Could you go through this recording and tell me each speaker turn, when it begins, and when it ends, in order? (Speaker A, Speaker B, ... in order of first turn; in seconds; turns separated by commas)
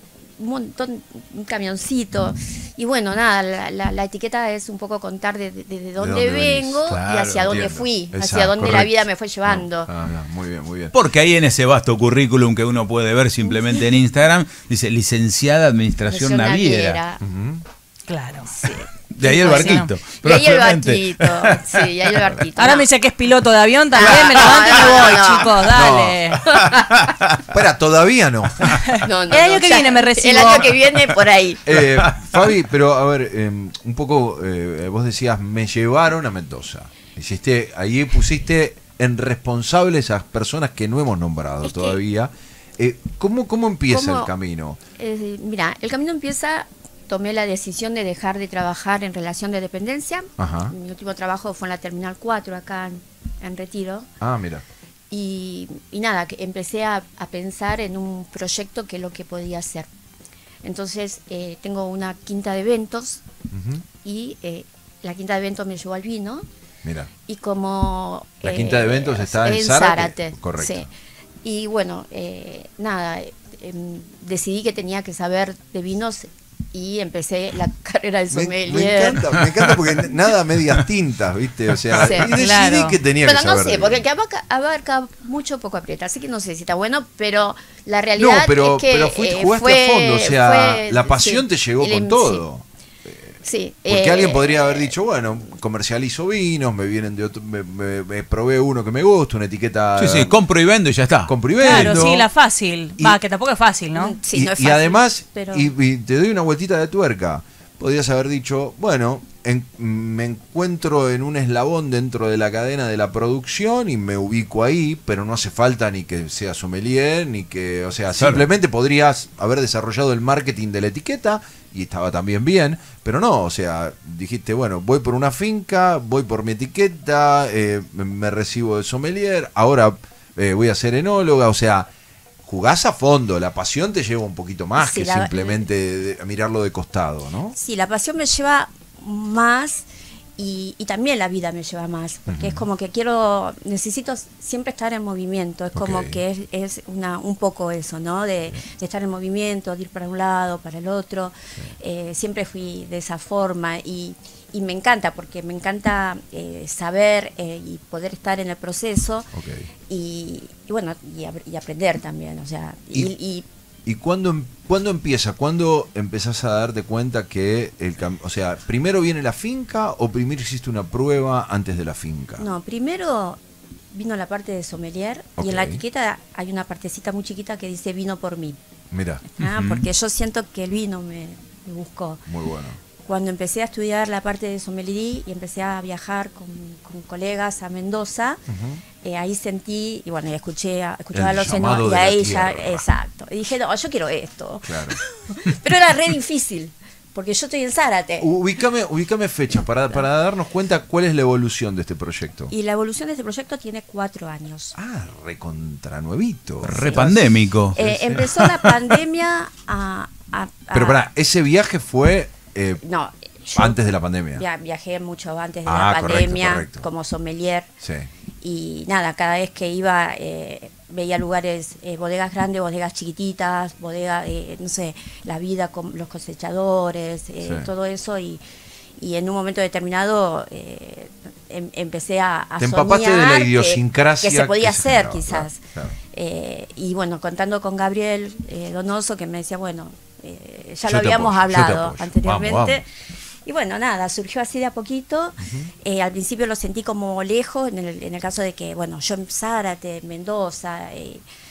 Speaker A: 0.4-9.9, Speaker B: 6.0-6.9, Speaker C: 6.9-7.6, Speaker B: 7.4-10.9, Speaker C: 10.9-17.0, Speaker A: 16.1-17.2, Speaker B: 17.2-17.6, Speaker D: 18.1-18.5, Speaker A: 18.5-22.9, Speaker C: 19.1-21.9, Speaker D: 19.2-19.9, Speaker D: 22.6-26.7, Speaker A: 23.9-25.7, Speaker B: 25.7-26.4, Speaker A: 26.5-26.8, Speaker C: 26.5-27.4, Speaker B: 27.5-28.9, Speaker D: 28.9-31.0, Speaker A: 29.0-31.6, Speaker B: 31.6-44.8, Speaker C: 31.7-32.5, Speaker A: 41.6-42.0, Speaker A: 43.9-44.3, Speaker A: 45.0-54.1, Speaker B: 50.4-50.7, Speaker B: 54.2-54.6, Speaker A: 55.1-59.9, Speaker A: 60.6-63.2, Speaker B: 63.5-63.8, Speaker A: 64.0-66.4, Speaker B: 66.8-67.1, Speaker A: 67.2-70.9, Speaker B: 68.4-70.9, Speaker A: 71.4-79.2, Speaker B: 78.3-84.0, Speaker A: 82.0-82.3, Speaker D: 82.2-83.0, Speaker A: 83.2-92.4, Speaker B: 88.2-93.3, Speaker A: 93.4-94.9, Speaker B: 93.9-100.4, Speaker C: 100.0-102.0, Speaker B: 101.3-102.3, Speaker D: 101.6-104.2, Speaker A: 103.9-105.7, Speaker B: 104.3-131.9, Speaker C: 118.2-118.4, Speaker B: 132.4-137.6, Speaker A: 134.8-135.7, Speaker A: 137.5-159.3, Speaker B: 142.3-142.6, Speaker B: 145.8-146.2, Speaker B: 159.3-159.7, Speaker A: 159.9-163.4, Speaker B: 163.8-172.4, Speaker A: 172.4-173.4, Speaker A: 173.9-178.6, Speaker B: 175.4-175.8, Speaker B: 178.9-179.2, Speaker A: 179.2-182.3, Speaker C: 179.4-179.9, Speaker B: 182.3-182.8, Speaker A: 183.0-188.4, Speaker B: 188.5-188.8, Speaker A: 189.0-198.3, Speaker B: 191.1-192.8, Speaker B: 194.7-195.0, Speaker B: 198.2-202.5, Speaker A: 202.5-204.8, Speaker B: 204.8-207.2, Speaker C: 206.6-208.7, Speaker A: 206.8-207.2, Speaker A: 207.7-211.0, Speaker B: 207.8-208.2, Speaker B: 210.7-212.8, Speaker A: 212.8-213.8, Speaker B: 213.6-214.4, Speaker A: 214.3-217.7, Speaker B: 215.7-216.8, Speaker B: 217.8-218.1, Speaker A: 218.4-228.4, Speaker B: 227.4-227.7, Speaker A: 229.0-242.9, Speaker B: 232.6-236.0, Speaker B: 240.9-242.8, Speaker A: 243.4-251.2, Speaker B: 245.4-245.7